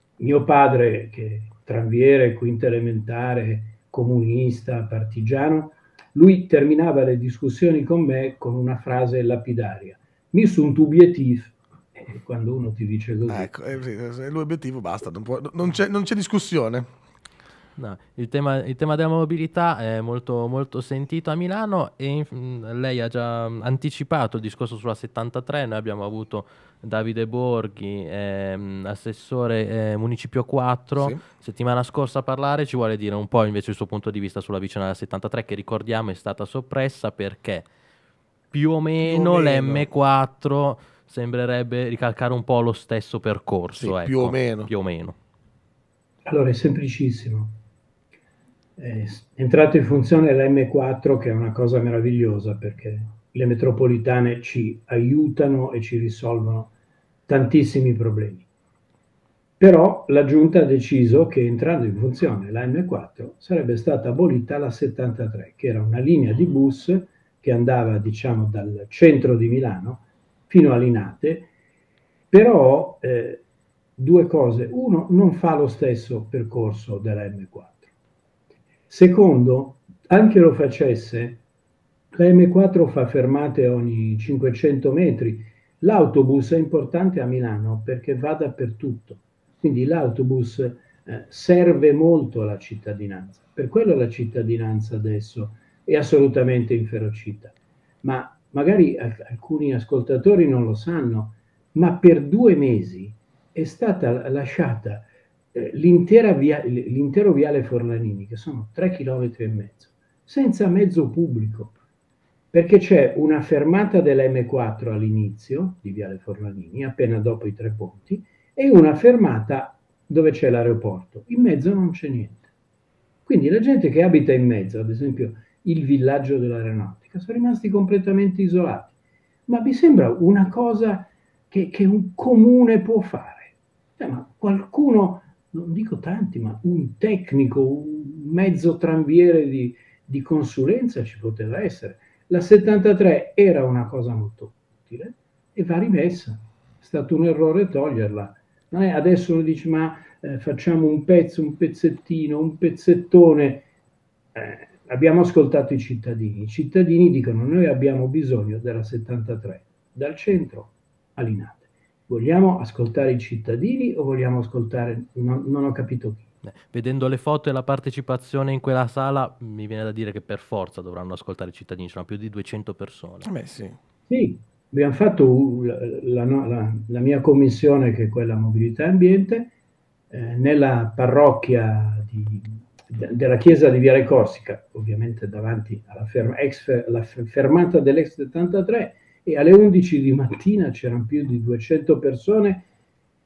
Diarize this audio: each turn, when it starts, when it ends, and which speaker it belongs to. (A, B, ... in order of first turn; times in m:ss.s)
0:00.2-0:13.5 A
0:13.3-0:16.9 B
0:17.8-0:37.7 C
0:38.5-0:45.2 C
0:39.0-0:39.8 B
0:43.8-0:44.7 B
0:46.2-0:47.6 A
0:48.8-0:56.7 A
0:57.3-0:58.4 A
0:59.6-1:11.5 A
1:12.3-1:13.4 A
1:14.0-1:17.9 A
1:18.9-1:21.4 A
1:22.1-1:51.7 A
1:52.5-2:02.4 A
2:03.3-2:08.9 A
2:09.5-2:33.6 A
2:34.3-2:46.2 A
2:46.4-2:53.3 C
2:53.2-2:53.8 B
2:54.1-2:59.5 A
3:00.1-3:12.7 A